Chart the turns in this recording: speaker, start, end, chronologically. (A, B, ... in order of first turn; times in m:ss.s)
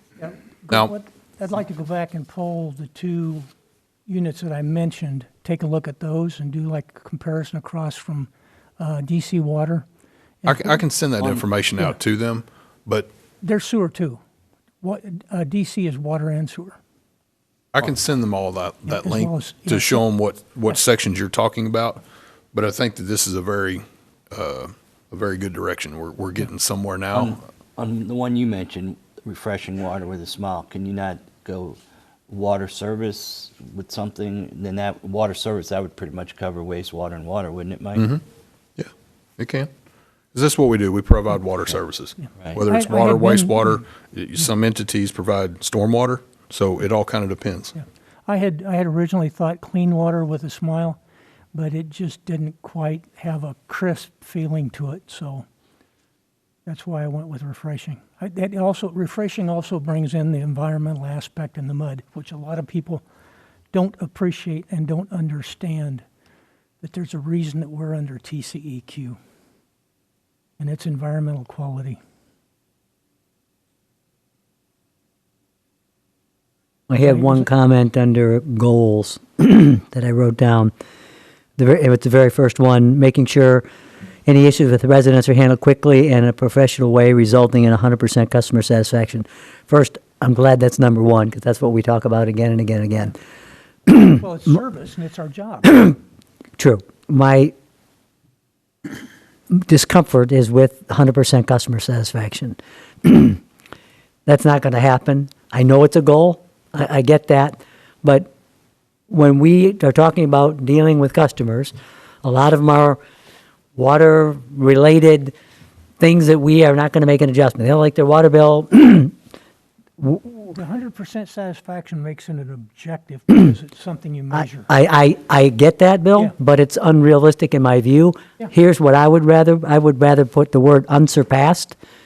0:00.2-0:03.5 A
0:04.1-0:09.8 A
0:10.4-0:10.8 A
0:10.4-0:13.1 B
0:13.4-0:14.2 A
0:14.8-0:16.8 A
0:17.7-0:27.4 B
0:18.8-0:20.0 A
0:27.1-0:31.8 C
0:32.3-0:38.1 C
0:37.9-0:38.2 B
0:38.8-0:39.7 B
0:40.3-0:47.8 B
0:42.3-0:42.6 C
0:42.5-0:43.8 A
0:47.8-0:51.0 A
0:51.5-0:55.4 A
0:56.6-1:03.0 A
1:03.7-1:06.0 A
1:06.8-1:09.2 A
1:10.6-1:12.0 A
1:16.9-1:20.7 D
1:17.0-1:17.5 A
1:21.6-1:23.6 D
1:24.2-1:33.1 D
1:33.9-1:34.2 D
1:34.1-1:35.8 A
1:35.6-1:35.9 D
1:36.6-1:37.5 D
1:39.5-1:43.4 D
1:44.2-1:48.3 D
1:49.1-1:53.0 D
1:53.8-1:55.3 D
1:56.0-1:59.1 D
2:00.0-2:00.6 D
2:00.5-2:04.7 A
2:04.3-2:11.7 D